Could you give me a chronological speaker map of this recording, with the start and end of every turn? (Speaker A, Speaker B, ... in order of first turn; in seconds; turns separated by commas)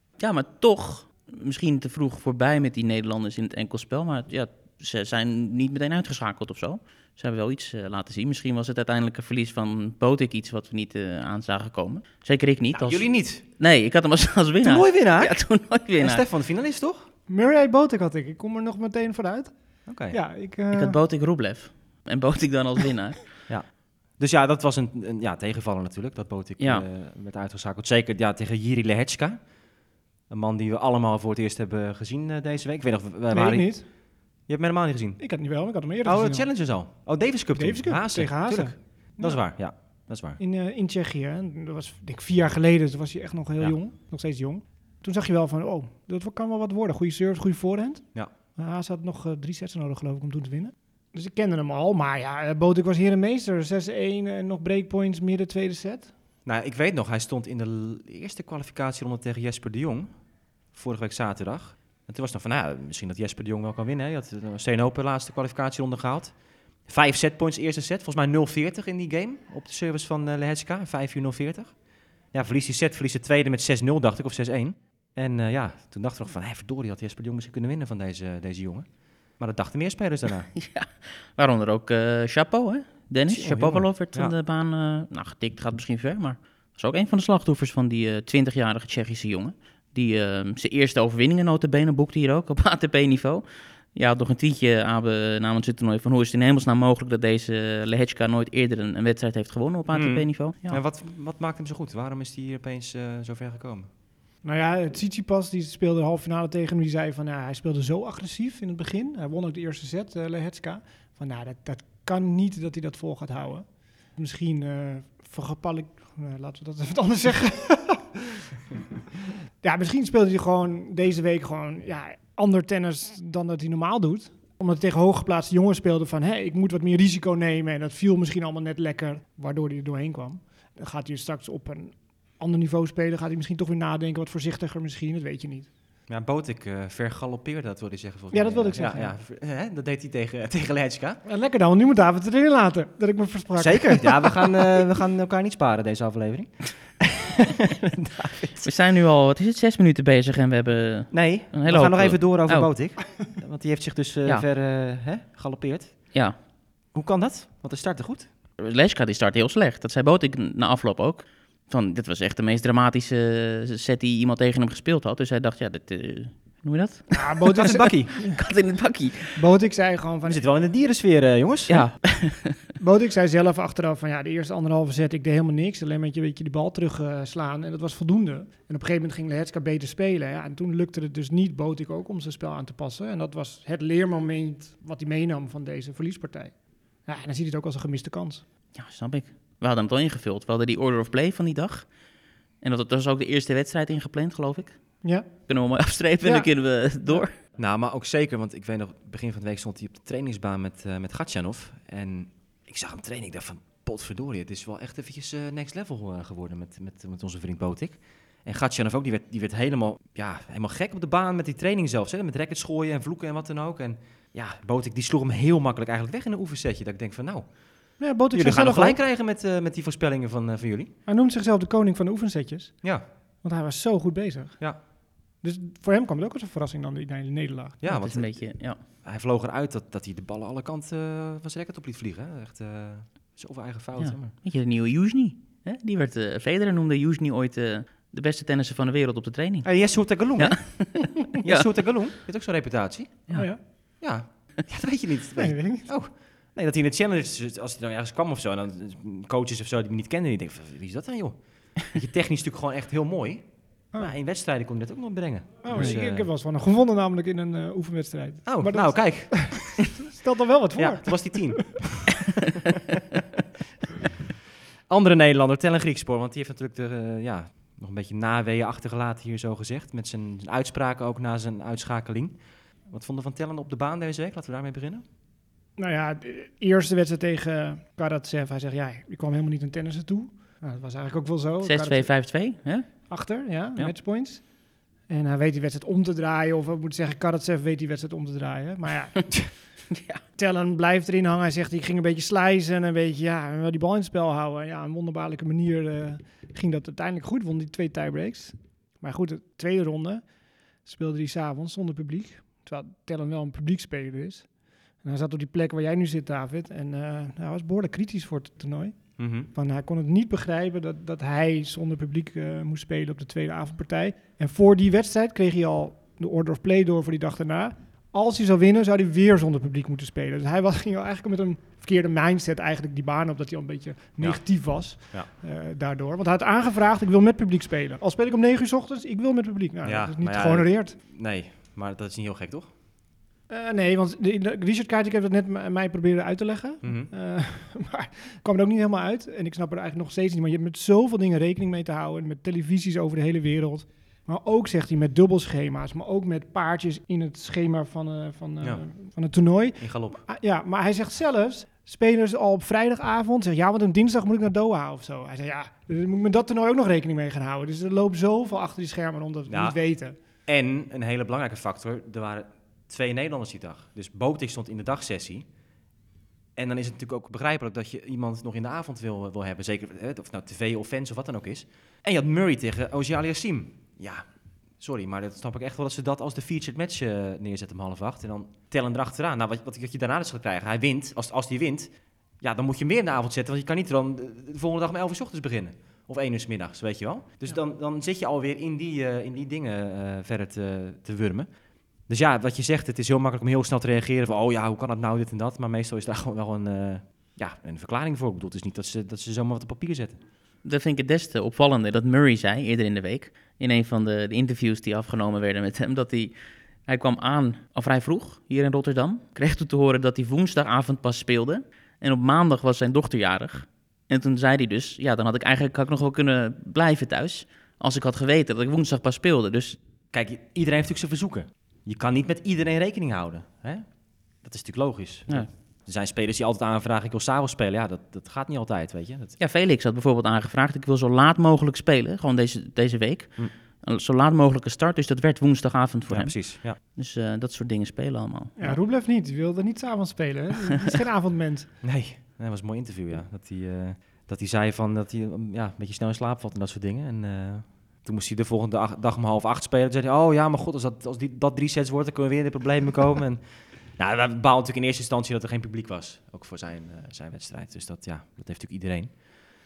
Speaker A: 0.2-16.2, Speaker B: 12.7-13.4, Speaker B: 14.6-17.1, Speaker C: 17.3-21.0, Speaker B: 19.9-20.2, Speaker A: 20.7-23.3, Speaker B: 23.5-29.6, Speaker A: 26.6-26.8, Speaker B: 30.3-40.4, Speaker C: 33.3-33.9, Speaker C: 35.2-36.7, Speaker C: 37.5-39.5, Speaker C: 40.4-56.1, Speaker B: 56.5-60.1, Speaker B: 60.7-80.5, Speaker A: 80.6-100.8, Speaker B: 83.3-84.3, Speaker B: 99.9-103.9, Speaker C: 104.4-118.3, Speaker C: 119.6-135.7, Speaker B: 136.1-141.2, Speaker C: 138.3-139.2, Speaker C: 141.2-144.6, Speaker B: 143.6-148.7, Speaker A: 148.6-153.2, Speaker B: 151.1-156.2, Speaker B: 156.9-158.3, Speaker A: 158.6-169.4, Speaker C: 167.2-168.3, Speaker B: 167.6-168.1, Speaker C: 169.3-170.4, Speaker B: 170.3-171.9, Speaker A: 171.7-172.6, Speaker C: 172.8-188.4, Speaker A: 188.7-192.1, Speaker A: 192.6-197.4, Speaker C: 195.0-197.3, Speaker B: 197.6-220.9, Speaker C: 218.0-219.0, Speaker C: 221.1-227.8, Speaker B: 222.8-223.1, Speaker B: 227.8-234.3, Speaker A: 227.8-228.8, Speaker A: 234.0-241.7, Speaker B: 239.6-256.3, Speaker A: 243.3-243.9, Speaker C: 243.3-243.6, Speaker C: 245.4-245.9, Speaker C: 255.6-261.8, Speaker B: 258.5-259.9, Speaker B: 260.8-262.3, Speaker B: 264.9-275.0, Speaker C: 275.8-282.5, Speaker A: 281.6-283.9, Speaker C: 283.1-289.8, Speaker A: 289.9-290.2, Speaker C: 290.4-331.0, Speaker B: 309.2-309.5, Speaker B: 324.2-325.3, Speaker B: 329.8-332.7, Speaker C: 333.5-360.1, Speaker B: 336.8-337.1, Speaker B: 349.8-350.2, Speaker B: 359.5-365.5, Speaker B: 366.6-400.2, Speaker A: 400.6-419.8, Speaker B: 420.1-429.4, Speaker A: 429.4-438.8, Speaker B: 436.1-436.8, Speaker C: 438.6-441.7, Speaker B: 441.8-459.3